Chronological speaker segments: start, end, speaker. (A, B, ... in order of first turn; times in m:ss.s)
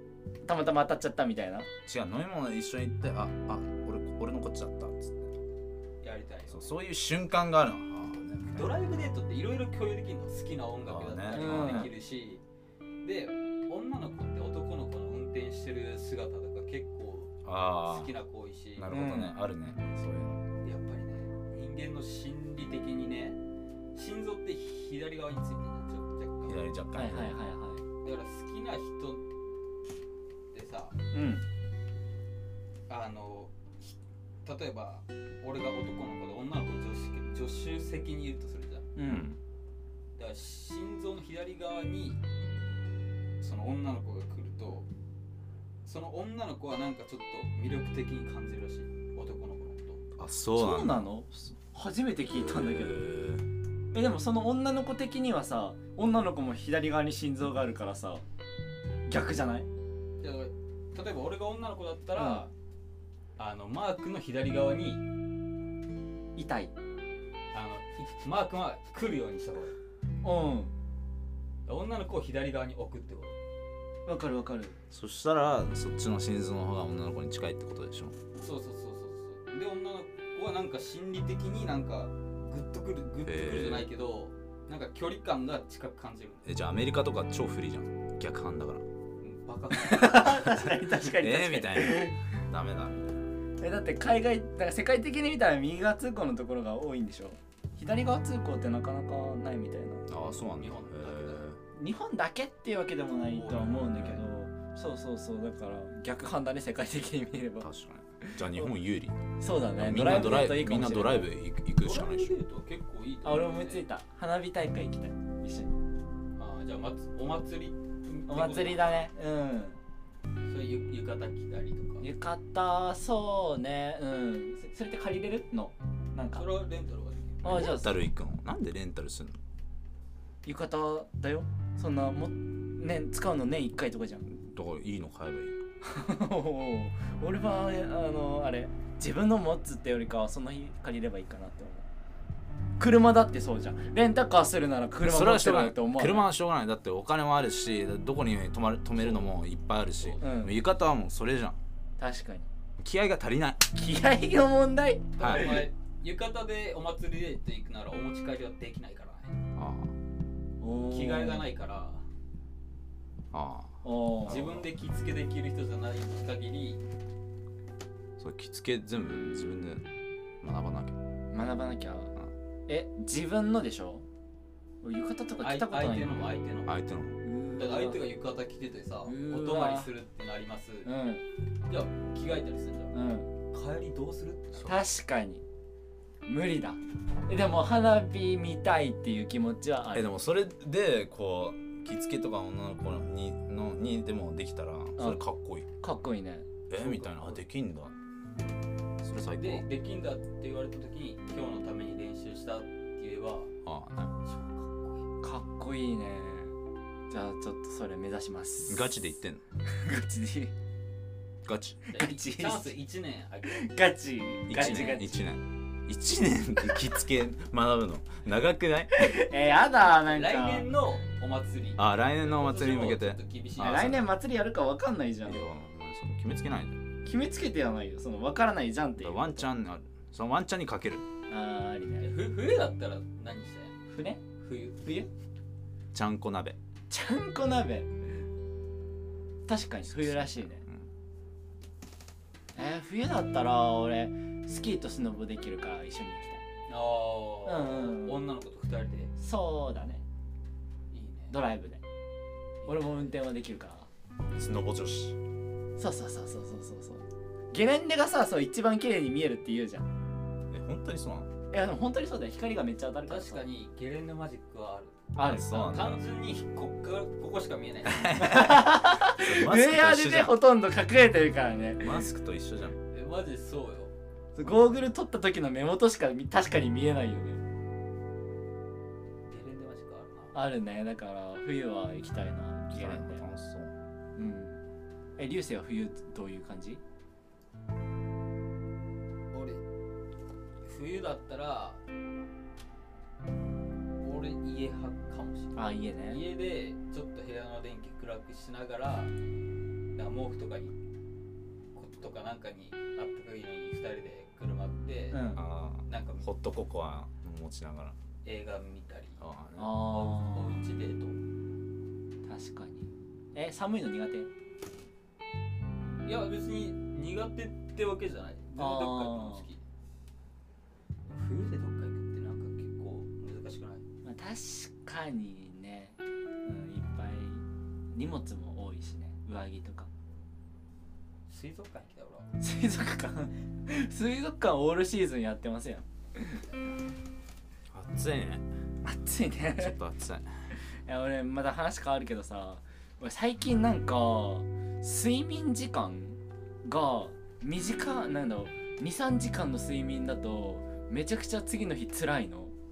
0:00.4-0:01.7 A
0:01.8-0:05.4 B
0:06.0-0:06.8 C
0:06.5-0:08.8 B
0:08.5-0:12.4 C
0:10.9-0:11.9 B
0:11.3-0:11.9 A
0:13.0-0:18.9 C
0:17.4-0:18.1 B
0:18.8-0:20.4 B
0:18.9-0:19.4 A
0:20.6-0:23.4 C
0:24.0-0:26.6 C
0:26.4-0:27.4 B
0:27.0-0:27.8 A
0:28.0-0:29.2 C
0:30.5-0:31.0 C
0:31.1-0:31.4 A
0:32.9-0:38.9 C
0:39.0-0:39.3 A
0:39.0-0:39.4 B
0:40.2-0:42.2 C
0:43.4-0:44.9 C
0:45.8-0:50.0 C
0:50.2-0:51.1 B
0:50.6-0:53.1 A
0:52.3-0:53.5 B
0:53.9-0:58.2 A
0:59.1-0:59.7 A
1:00.2-1:02.5 C
1:02.2-1:02.5 A
1:03.4-1:05.0 C
1:06.4-1:06.8 A
1:07.5-1:09.8 C
1:10.2-1:10.7 A
1:11.7-1:13.4 C
1:14.1-1:14.8 A
1:14.9-1:18.2 B
1:18.4-1:26.5 C
1:23.2-1:23.9 B
1:26.4-1:28.8 B
1:29.2-1:30.4 C
1:29.7-1:32.2 A
1:30.4-1:33.2 B
1:33.6-1:40.1 A
1:40.1-1:41.6 B
1:40.4-1:41.5 C
1:41.7-1:47.7 A
1:43.3-1:44.2 C
1:47.6-1:49.2 B
1:48.2-1:48.7 A
1:49.4-1:51.3 A
1:49.8-1:52.4 B
1:51.8-1:53.8 C
1:53.2-1:55.8 A
1:56.4-1:59.1 C
1:58.3-1:59.8 A
2:00.5-2:02.1 C
2:02.0-2:06.5 A
2:06.3-2:07.6 C
2:07.4-2:08.0 A
2:07.4-2:09.4 B
2:10.4-2:14.3 A
2:14.3-2:15.6 B
2:15.8-2:21.9 A
2:22.8-2:26.3 A
2:25.0-2:31.6 B
2:29.0-2:29.3 C
2:30.0-2:30.2 C
2:30.2-2:30.5 A
2:32.0-2:32.5 A
2:32.8-2:33.7 B
2:33.7-2:35.6 A
2:35.2-2:35.7 B
2:35.2-2:39.4 C
2:39.6-2:39.9 B
2:40.6-2:41.5 A
2:40.9-2:42.0 C
2:43.3-2:44.7 B
2:43.8-2:44.4 A
2:44.3-2:46.8 C
2:48.2-2:49.8 B
2:50.4-2:51.0 B
2:51.3-2:52.1 A
2:52.7-2:54.0 A
2:54.8-2:56.3 A
2:55.4-2:56.8 C
2:56.7-2:57.2 B
2:57.2-2:58.0 A
2:57.6-3:00.9 C
2:59.0-2:59.9 A
3:00.8-3:01.2 A
3:01.7-3:03.0 C
3:02.9-3:03.3 A
3:03.5-3:04.8 C
3:04.7-3:05.4 A
3:06.3-3:10.1 A
3:09.9-3:15.7 B
3:15.0-3:15.2 A
3:15.8-3:16.5 A
3:16.7-3:18.0 B
3:16.8-3:17.4 C
3:19.0-3:19.7 B
3:19.4-3:23.5 C
3:23.6-3:24.1 B
3:24.2-3:25.0 C
3:25.2-3:26.5 A
3:27.1-3:29.0 A
3:28.7-3:29.4 B
3:29.7-3:30.5 A
3:31.4-3:31.8 B
3:31.9-3:33.7 C
3:31.9-3:32.7 A
3:33.5-3:35.3 A
3:34.5-3:39.1 B
3:39.0-3:40.7 A
3:39.9-3:44.0 C
3:41.8-3:44.1 B
3:43.6-3:45.4 A
3:45.3-3:46.8 B
3:47.0-3:49.5 A
3:49.0-3:51.0 B
3:51.3-3:52.1 A
3:52.0-3:53.8 C
3:53.9-3:54.2 A
3:54.4-3:54.8 C
3:55.9-3:56.6 B
3:56.9-3:58.2 A
3:59.5-4:00.6 A
3:59.9-4:00.9 B
4:02.6-4:06.4 A
4:06.7-4:09.1 C
4:07.5-4:08.2 A
4:09.2-4:10.0 A
4:10.9-4:11.4 C
4:11.3-4:11.8 A
4:12.6-4:13.2 C
4:12.7-4:13.9 A
4:14.4-4:15.2 B
4:15.8-4:19.9 A
4:20.5-4:21.3 B
4:21.5-4:23.4 A
4:23.1-4:25.1 C
4:25.2-4:25.8 A
4:25.2-4:26.0 B
4:25.6-4:28.1 C
4:27.8-4:30.4 B
4:28.2-4:32.0 A
4:31.8-4:32.8 B
4:32.9-4:33.9 C
4:34.4-4:37.4 A
4:39.2-4:40.4 C
4:40.3-4:43.2 A
4:42.7-4:43.7 B
4:44.2-4:44.6 A
4:45.2-4:46.8 A
4:49.3-4:49.6 C
4:50.6-4:51.8 C
4:54.0-4:59.1 C
4:55.6-4:56.2 A
5:00.0-5:00.8 C
5:01.7-5:06.3 C
5:05.1-5:05.4 A
5:05.4-5:08.0 B
5:08.2-5:09.2 C
5:09.2-5:09.8 B
5:09.6-5:10.6 A
5:09.8-5:11.2 C
5:12.2-5:14.3 A
5:16.0-5:19.6 C
5:18.6-5:19.5 A
5:21.1-5:23.8 C
5:24.0-5:29.9 A
5:31.3-5:32.3 C
5:32.4-5:36.4 A
5:37.7-5:38.4 B
5:38.8-5:39.7 A
5:39.6-5:40.4 B
5:40.6-5:52.5 A